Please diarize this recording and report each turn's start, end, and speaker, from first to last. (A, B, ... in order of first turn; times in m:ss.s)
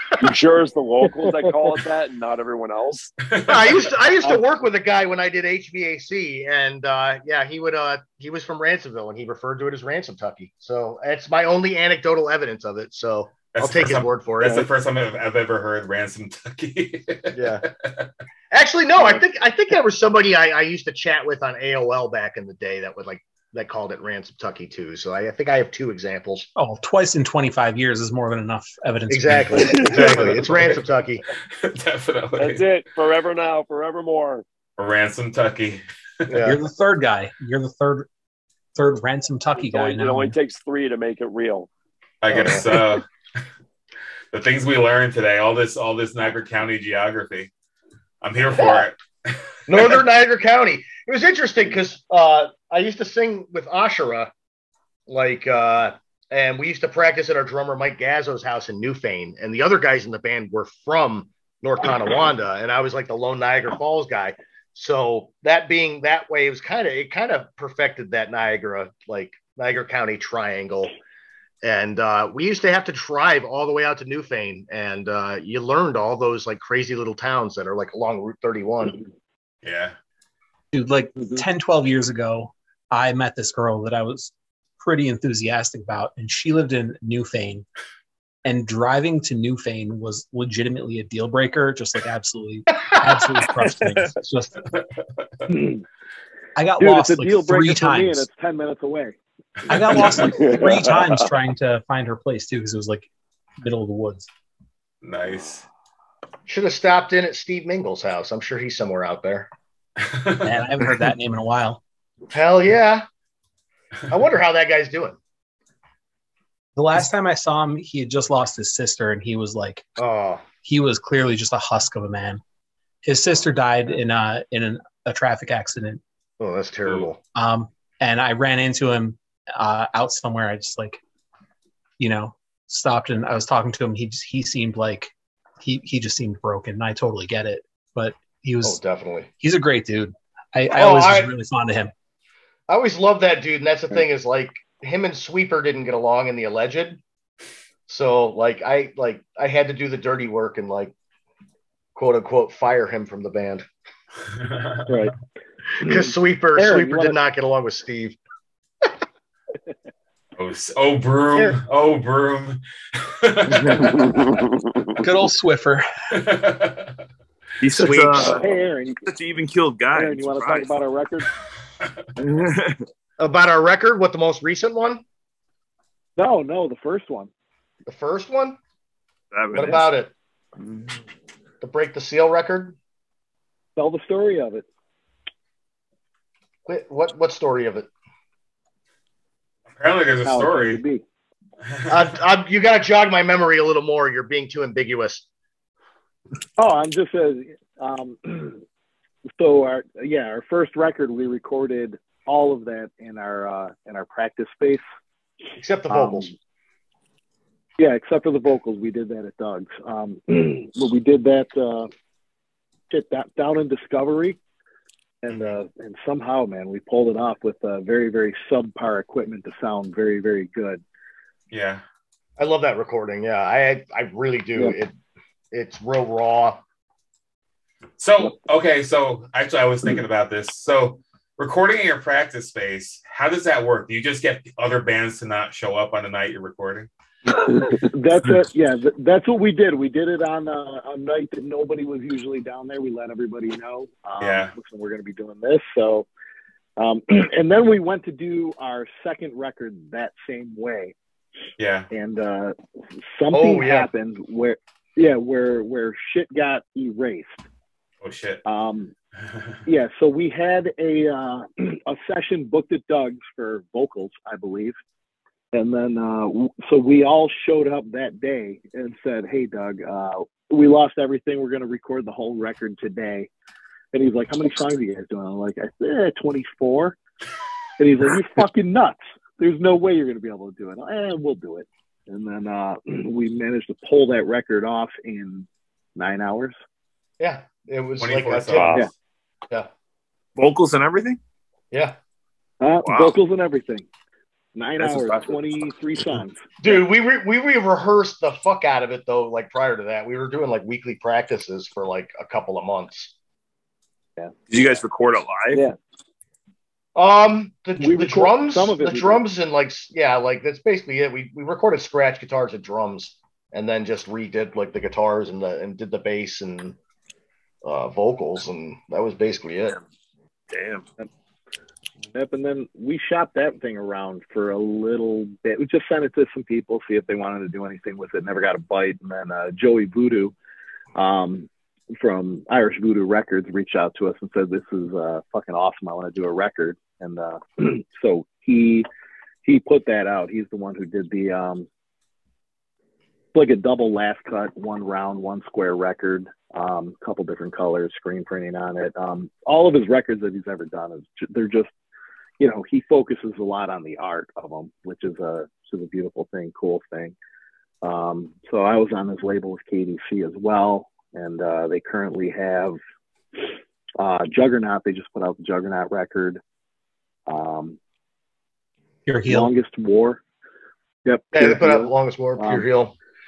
0:00.2-0:03.1 A
0:01.2-0:01.8 B
0:03.3-0:03.6 C
0:03.5-0:14.7 D
0:13.6-0:18.1 C
0:17.3-0:17.6 D
0:18.5-0:26.5 D
0:26.6-0:30.0 E
0:29.1-0:31.2 D
0:29.9-0:30.7 C
0:31.6-0:32.7 C
0:32.4-0:34.4 A
0:34.8-0:36.3 C
0:36.3-0:36.6 D
0:36.4-0:38.1 E
0:38.8-0:40.4 E
0:39.6-0:41.7 A
0:42.2-0:43.0 C
0:42.3-0:42.7 D
0:44.3-0:47.5 C
0:48.2-0:49.9 C
0:48.6-0:48.9 D
0:49.7-0:54.3 D
0:55.1-1:11.0 D
1:11.6-1:19.0 D
1:19.6-1:20.0 C
1:20.7-1:27.6 E
1:28.4-1:34.6 E
1:35.5-1:35.8 B
1:36.6-1:38.3 E
1:36.8-1:39.2 B
1:39.7-1:43.1 E
1:39.9-1:40.3 C
1:40.4-1:40.8 A
1:43.6-1:44.3 E
1:45.0-1:45.6 C
1:46.5-1:49.5 D
1:50.0-1:50.5 C
1:50.4-1:51.8 E
1:52.3-1:53.0 D
1:54.1-1:55.2 D
1:56.8-1:59.9 E
2:00.0-2:00.4 D
2:00.6-2:02.4 E
2:03.0-2:06.0 E
2:06.4-2:07.2 D
2:07.4-2:11.0 E
2:12.0-2:18.8 E
2:18.6-2:19.3 D
2:19.4-2:21.9 E
2:20.8-2:21.3 D
2:22.7-2:27.0 D
2:27.9-2:30.9 D
2:32.0-2:33.6 D
2:34.4-2:34.9 C
2:34.9-2:35.1 B
2:35.8-2:37.2 B
2:35.8-2:38.2 D
2:40.4-2:44.2 C
2:45.0-2:45.9 E
2:46.1-2:47.0 C
2:47.6-2:48.5 F
2:47.7-2:48.4 D
2:48.3-2:49.0 B
2:49.0-2:50.7 F
2:49.9-2:51.3 B
2:52.2-2:52.8 F
2:53.2-2:55.0 D
2:56.2-2:57.3 B
2:57.9-2:58.6 D
2:59.3-2:59.9 F
2:59.5-3:00.1 D
3:00.6-3:01.0 F
3:01.6-3:02.8 D
3:03.8-3:04.7 B
3:06.7-3:07.9 D
3:09.7-3:10.8 C
3:10.2-3:11.0 B
3:11.9-3:15.2 D
3:16.6-3:18.6 B
3:19.4-3:24.8 B
3:25.6-3:26.3 D
3:25.9-3:26.3 B
3:27.8-3:31.9 B
3:32.9-3:34.4 B
3:35.2-3:40.8 B
3:41.5-3:41.8 C
3:42.4-3:44.9 D
3:45.5-3:46.6 D
3:48.0-3:56.9 C
3:57.5-4:06.1 B
4:04.2-4:04.5 C
4:06.8-4:10.9 B
4:11.6-4:11.9 C
4:11.9-4:12.6 B
4:13.1-4:17.4 B
4:13.3-4:13.9 D
4:18.0-4:18.4 C
4:18.4-4:18.9 B
4:19.7-4:24.8 B
4:25.5-4:33.3 B
4:33.9-4:37.0 B
4:37.8-4:46.6 B
4:47.2-4:48.8 D
4:48.0-4:48.9 C
4:48.5-4:48.9 A
4:50.4-4:51.2 F
4:51.7-4:52.0 D
4:52.6-4:53.9 B
4:52.8-4:53.2 F
4:54.6-4:56.8 B
4:54.8-4:56.2 F
4:56.6-5:03.1 D
5:04.5-5:05.6 F
5:07.0-5:16.8 D
5:07.8-5:09.2 B
5:17.6-5:19.8 D
5:20.5-5:20.8 F
5:22.1-5:30.4 B
5:31.0-5:38.9 B
5:39.4-5:41.7 B
5:43.3-5:51.7 B
5:52.4-5:57.2 B
5:57.8-6:02.8 B
6:04.0-6:06.4 B
6:07.3-6:07.8 B
6:09.1-6:09.5 E
6:09.3-6:10.2 B
6:11.0-6:12.6 B
6:11.3-6:13.0 D